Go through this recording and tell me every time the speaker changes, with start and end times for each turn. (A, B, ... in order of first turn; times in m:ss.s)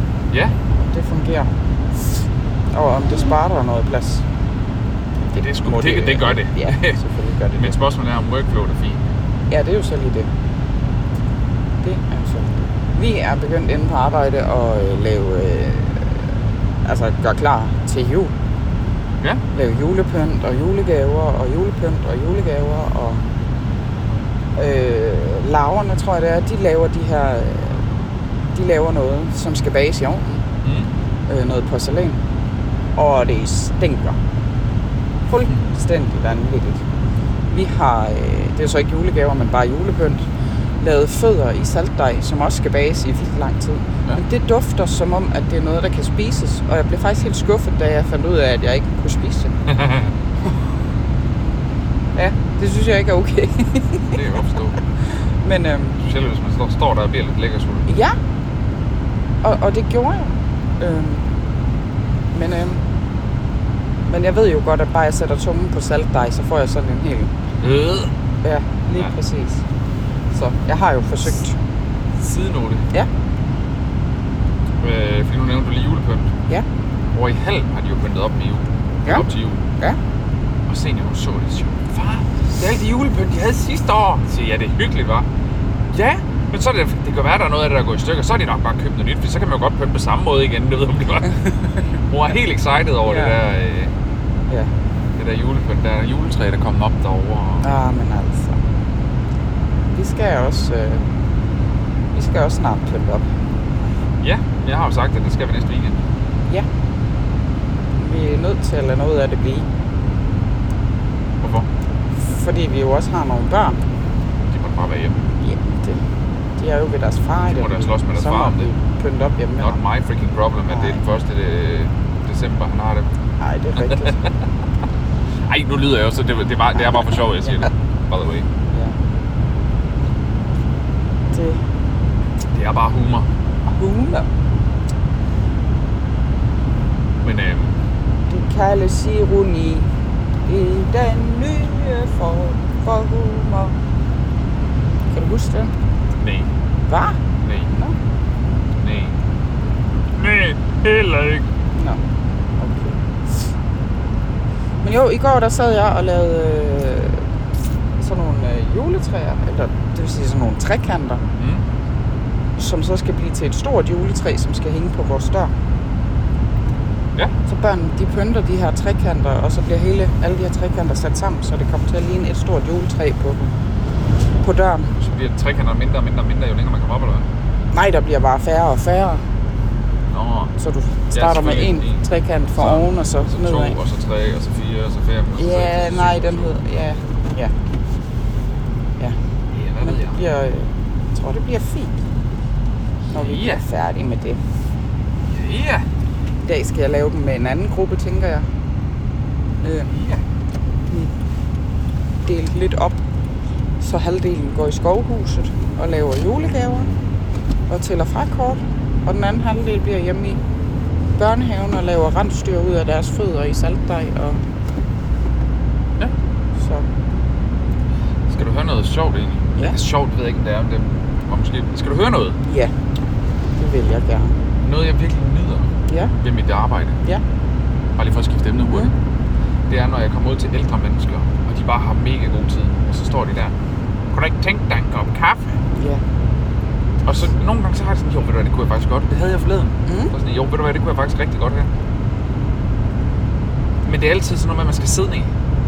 0:00.3-0:00.6 A
0:00.7-0:01.5 B
0:02.7-0:04.2 B
0:05.3-0:07.8 B
0:05.3-0:07.0 A
0:07.5-0:09.0 A
0:09.5-0:10.3 B
0:11.8-0:16.3 B
0:16.8-0:18.3 B
0:19.5-0:23.2 B
0:24.6-0:27.8 B
0:28.5-0:30.4 B
0:30.6-0:30.9 A
0:31.3-0:32.2 B
0:33.0-0:34.2 B
0:35.3-0:36.8 B
0:37.5-0:40.3 B
0:40.8-0:49.5 B
0:49.7-0:50.1 A
0:52.1-0:54.2 B
0:54.1-0:54.8 A
0:55.4-0:56.0 B
0:56.0-0:57.9 A
0:57.9-0:58.2 B
0:59.4-1:01.2 B
1:02.3-1:02.8 B
1:04.1-1:07.3 B
1:07.6-1:08.1 A
1:08.4-1:09.6 B
1:10.3-1:11.6 B
1:12.2-1:12.9 A
1:14.8-1:16.3 A
1:17.1-1:19.6 A
1:20.7-1:25.3 A
1:25.9-1:33.9 A
1:33.0-1:33.4 B
1:35.2-1:37.7 A
1:37.6-1:38.6 B
1:39.9-1:41.0 B
1:42.1-1:43.3 B
1:44.2-1:46.0 A
1:48.0-1:49.7 B
1:51.4-1:51.7 A
1:52.2-1:53.8 B
1:54.5-1:55.2 A
1:55.4-1:56.0 B
1:56.6-1:59.8 B
1:57.5-1:58.7 A
1:59.6-2:03.1 A
2:00.7-2:01.0 B
2:03.4-2:04.2 B
2:03.8-2:04.3 A
2:05.5-2:08.5 A
2:06.8-2:07.7 B
2:08.7-2:09.0 B
2:11.3-2:11.6 B
2:12.5-2:13.3 A
2:13.6-2:14.3 B
2:17.2-2:17.8 A
2:18.3-2:19.9 B
2:20.4-2:23.7 B
2:25.1-2:25.7 B
2:26.2-2:26.5 A
2:26.9-2:27.2 B
2:27.4-2:27.7 A
2:28.8-2:29.2 A
2:30.1-2:31.5 A
2:31.7-2:32.0 B
2:32.6-2:33.0 B
2:34.8-2:37.2 B
2:38.0-2:41.2 B
2:42.6-2:45.5 B
2:47.4-2:53.5 B
2:54.4-2:54.9 B
2:55.0-2:57.3 A
2:57.7-2:59.2 B
3:00.1-3:00.5 A
3:00.6-3:03.8 B
3:01.1-3:06.6 A
3:05.4-3:07.5 B
3:09.5-3:10.2 A
3:09.8-3:12.0 B
3:13.1-3:13.6 A
3:13.1-3:14.4 B
3:15.3-3:15.9 A
3:16.4-3:18.4 B
3:19.6-3:19.9 B
3:19.9-3:20.2 A
3:22.2-3:23.0 B
3:23.8-3:26.9 B
3:27.7-3:30.4 B
3:31.2-3:34.4 B
3:36.6-3:36.8 B
3:38.3-3:42.4 A
3:42.4-3:42.7 B
3:43.6-3:44.4 B
3:44.6-3:47.0 A
3:45.9-3:46.1 B
3:48.0-3:48.9 A
3:49.7-3:53.5 A
3:54.1-3:55.6 A
3:55.7-3:56.0 B
3:57.0-4:01.7 A
3:59.9-4:00.1 B
4:03.8-4:05.3 A